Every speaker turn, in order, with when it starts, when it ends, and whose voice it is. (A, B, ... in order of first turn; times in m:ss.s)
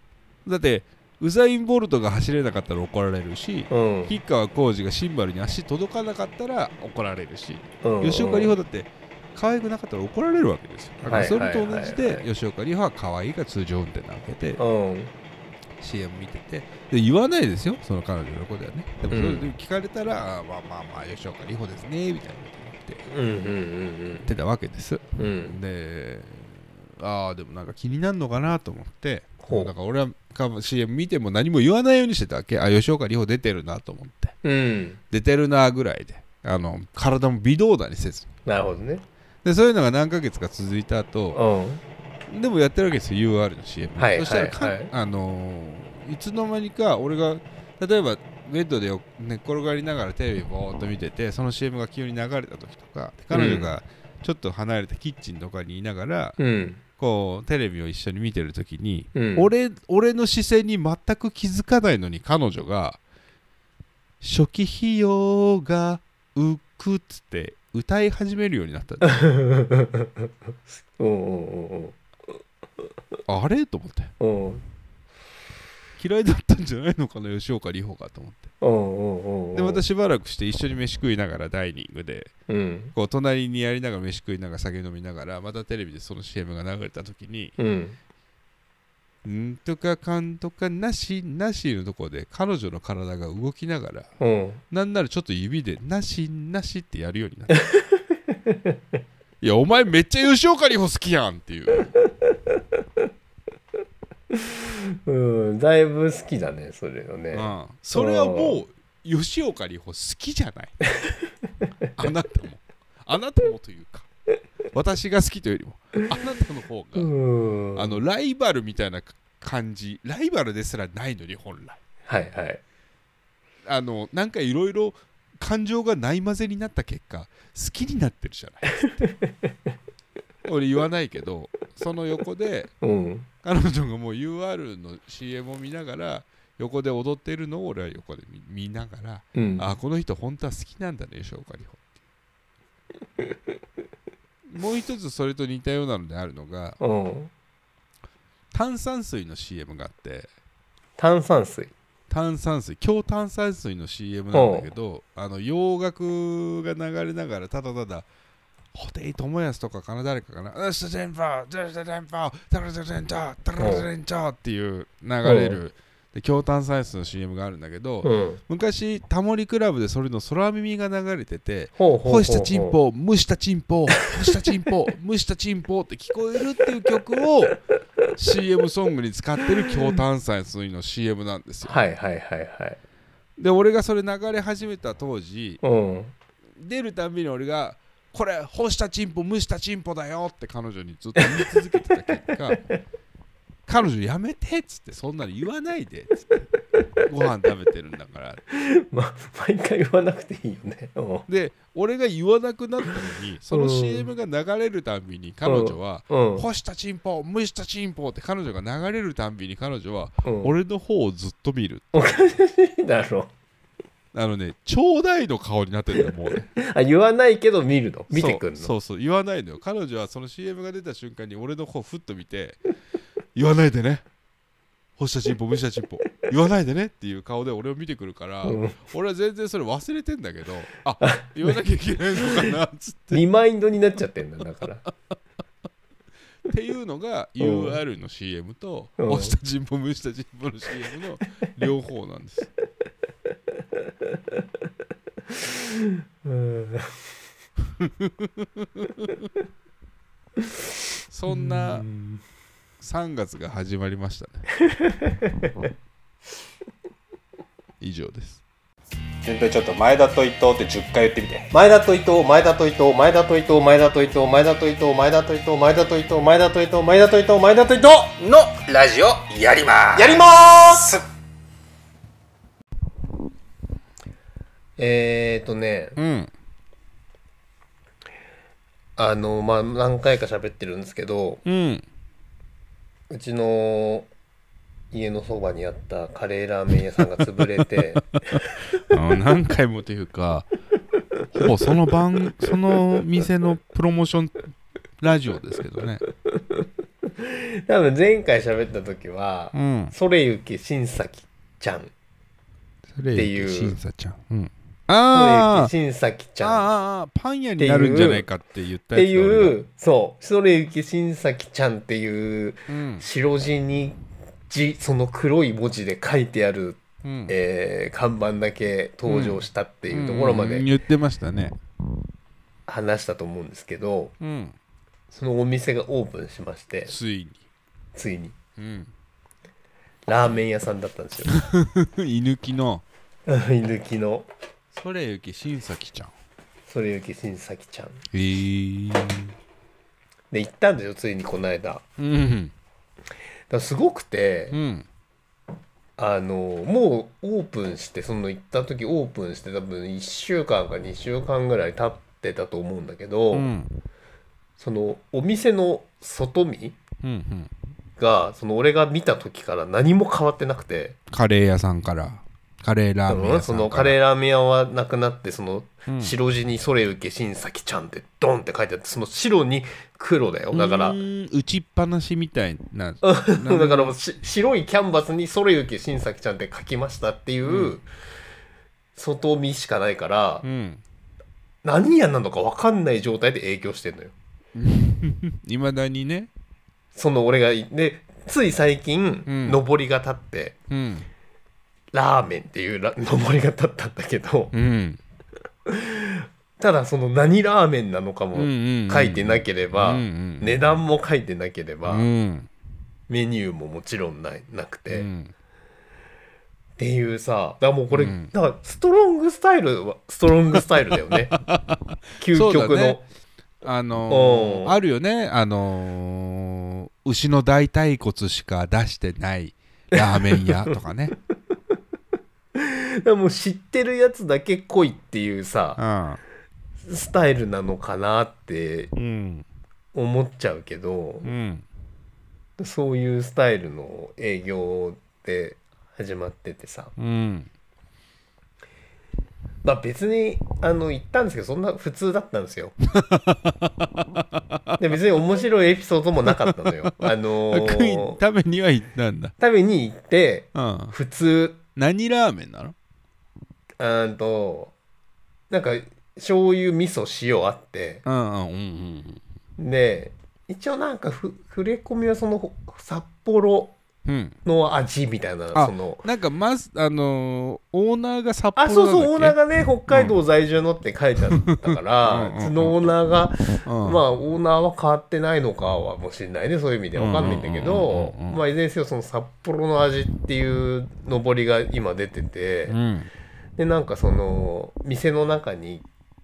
0:00.4-0:14.6 A
0:03.7-0:04.1 B
0:07.8-0:08.5 B
0:11.1-0:12.3 B
0:14.6-0:15.1 B
0:15.8-0:23.0 A
0:19.1-0:19.5 B
0:23.1-0:24.3 B
0:24.2-0:34.4 A
0:25.2-0:25.6 B
0:29.4-0:29.7 B
0:34.4-0:35.0 B
0:35.1-0:38.3 A
0:38.4-0:39.0 B
0:39.4-0:41.4 A
0:41.3-0:41.8 B
0:42.3-0:56.4 A
0:44.0-0:44.9 B
0:53.3-0:53.7 B
0:56.4-0:56.8 B
0:57.0-1:03.0 A
0:59.1-0:59.5 B
1:04.2-1:09.2 A
1:09.1-1:10.3 B
1:11.0-1:12.0 B
1:13.3-1:14.1 A
1:14.2-1:14.6 B
1:16.0-1:18.5 A
1:18.6-1:19.8 B
1:19.5-1:22.3 A
1:22.5-1:22.9 B
1:22.9-1:27.5 A
1:27.6-1:28.0 B
1:29.2-1:34.1 A
1:34.2-1:34.6 B
1:34.7-1:37.6 A
1:37.7-1:38.8 B
1:39.4-1:41.9 A
1:42.3-1:42.6 B
1:44.3-1:48.6 B
1:47.3-1:50.8 A
1:51.9-1:54.1 A
1:54.7-1:57.1 A
1:56.9-1:58.0 B
1:57.7-2:01.8 A
2:02.1-2:02.6 B
2:03.6-2:08.8 A
2:08.9-2:09.3 B
2:10.4-2:12.7 A
2:12.8-2:13.3 B
2:13.4-2:21.8 A
2:19.3-2:19.6 B
2:24.5-2:26.8 A
2:26.8-2:27.3 B
2:28.5-2:30.3 A
2:31.0-2:31.7 B
2:32.1-2:38.1 A
2:34.3-2:34.7 B
2:38.7-2:57.6 A
2:43.6-2:43.9 B
2:45.2-2:45.6 B
2:48.0-2:48.4 B
2:51.8-2:52.8 B
2:58.1-3:01.8 A
3:01.6-3:02.8 B
3:03.4-3:05.6 A
3:05.6-3:06.1 B
3:06.6-3:12.7 A
3:11.2-3:11.9 B
3:13.7-3:16.5 A
3:17.0-3:18.4 A
3:18.5-3:21.2 B
3:21.3-3:32.0 A
3:23.5-3:24.1 B
3:25.4-3:26.4 B
3:30.2-3:30.5 B
3:31.9-3:33.3 B
3:34.1-3:36.5 A
3:36.0-3:38.7 B
3:38.1-3:42.6 A
3:43.3-3:44.0 A
3:45.0-3:53.2 A
3:48.4-3:48.8 B
3:51.0-3:51.5 B
3:53.1-3:54.8 B
3:56.4-4:02.5 A
3:57.4-3:57.8 B
3:59.0-3:59.4 B
4:05.3-4:07.0 B
4:07.8-4:09.2 A
4:11.1-4:11.8 A
4:11.3-4:12.2 B
4:12.8-4:14.5 A
4:14.6-4:15.7 B
4:17.8-4:18.4 A
4:19.2-4:21.5 C
4:21.5-4:28.1 B
4:28.2-4:31.0 C
4:29.9-4:30.8 B
4:34.8-4:36.0 B
4:36.0-4:36.3 A
4:39.0-4:41.4 B
4:41.4-4:41.8 A
4:43.1-4:44.1 B
4:44.9-4:48.2 B
4:48.3-4:50.5 A
4:51.3-4:56.0 A
4:56.3-5:01.9 B
4:59.5-4:59.9 A
5:02.9-5:05.7 A
5:03.1-5:03.8 B
5:05.1-5:06.6 B
5:06.4-5:09.6 A
5:07.6-5:08.2 B
5:08.9-5:20.6 B
5:12.7-5:13.0 A
5:17.0-5:17.3 A
5:19.1-5:21.6 A
5:22.7-5:24.1 B
5:24.2-5:24.6 A
5:25.1-5:26.9 B
5:26.9-5:27.4 A
5:27.9-5:28.3 B
5:28.6-5:28.9 A
5:30.1-5:31.3 B
5:31.3-5:32.8 A
5:33.3-5:34.3 B
5:34.7-5:36.1 A
5:36.7-5:38.0 B
5:38.1-5:39.3 A
5:40.3-5:41.8 B
5:42.0-5:42.5 A
5:43.5-5:44.6 B
5:44.5-5:44.8 A
5:46.0-5:53.5 B
5:53.3-5:53.7 A
5:54.6-5:56.8 B
5:57.0-5:57.5 A
5:58.0-6:01.0 B
6:01.1-6:04.0 A
6:03.1-6:11.0 B
6:05.9-6:06.2 A
6:10.5-6:13.9 A
6:13.0-6:17.8 B
6:17.4-6:17.8 A
6:19.0-6:20.4 B
6:20.4-6:20.8 A
6:21.6-6:24.1 B
6:24.5-6:26.3 A
6:26.9-6:30.6 B
6:29.2-6:29.6 A
6:30.7-6:31.1 A
6:31.9-6:34.5 B
6:34.5-6:35.0 A
6:35.6-6:42.1 B
6:38.3-6:40.6 A
6:41.8-6:42.5 A
6:43.1-6:45.1 B
6:44.9-6:45.3 A
6:46.8-6:51.4 B
6:47.9-6:48.3 A
6:51.1-6:53.0 A
6:52.2-6:53.0 B
6:53.6-7:01.1 A
6:54.1-6:54.8 B
6:59.9-7:00.7 B
7:02.5-7:05.8 B
7:05.8-7:06.2 A
7:06.8-7:08.9 B
7:08.9-7:09.4 A
7:09.9-7:11.3 B
7:11.2-7:11.6 A
7:12.6-7:16.9 B
7:17.0-7:17.5 A
7:19.6-7:22.7 B
7:22.9-7:24.8 A
7:24.8-7:28.2 B
7:26.3-7:29.3 A
7:29.4-7:31.6 B
7:30.5-7:30.9 A
7:31.8-7:32.7 A
7:33.8-7:34.7 B
7:35.5-7:38.0 B
7:38.0-7:39.2 A
7:39.6-7:43.7 B
7:44.0-7:44.4 A
7:44.4-7:46.0 B
7:45.5-7:49.4 A
7:48.6-8:02.8 B
7:49.9-7:50.1 A
7:51.3-7:52.9 A
7:53.6-7:54.0 A
7:57.0-7:58.4 A
8:02.7-8:03.1 A
8:03.6-8:05.8 B